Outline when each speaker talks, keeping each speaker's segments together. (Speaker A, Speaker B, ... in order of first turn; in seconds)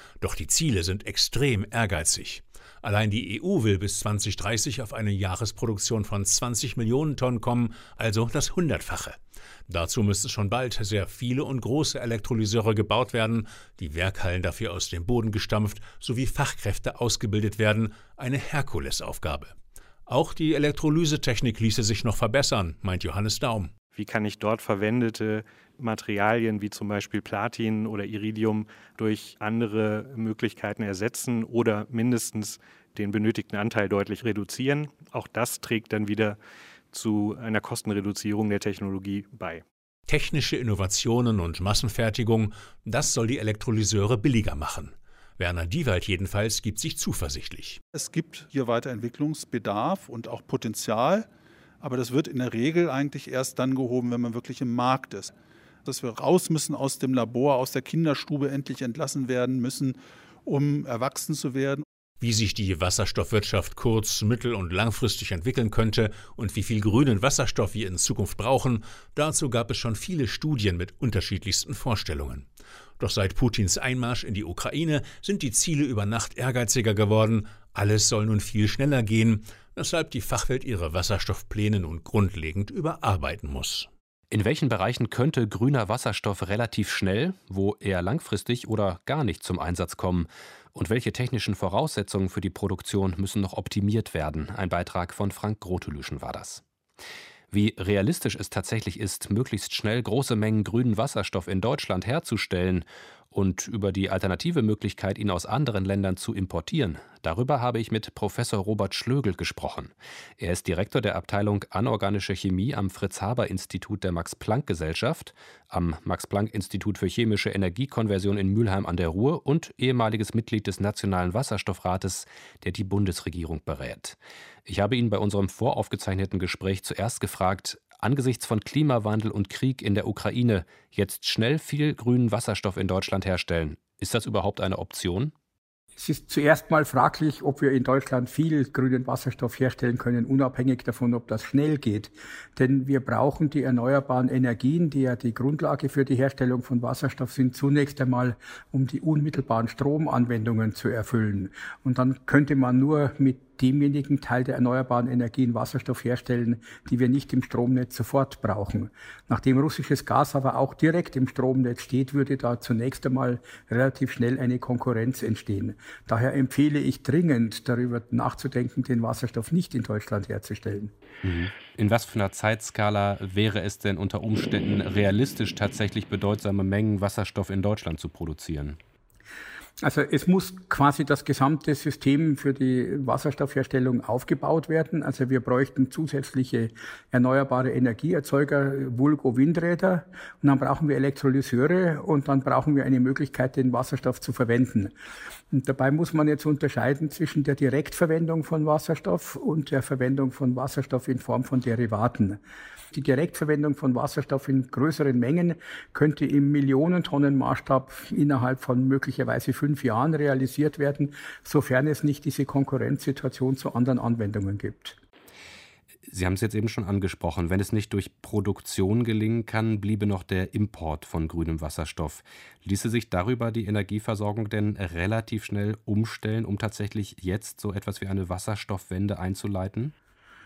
Speaker A: 0.2-19.5, 20.1-23.7, 40.1-47.8, 62.2-72.5, 73.0-83.9
Speaker B: 23.9-36.4, 36.9-39.6
Speaker C: 47.9-51.3, 51.8-55.3, 55.8-61.8
Speaker D: 84.3-96.6, 97.5-135.3, 171.2-178.8, 216.1-229.9
Speaker E: 136.0-170.9, 179.8-194.9, 195.5-202.4, 202.9-215.0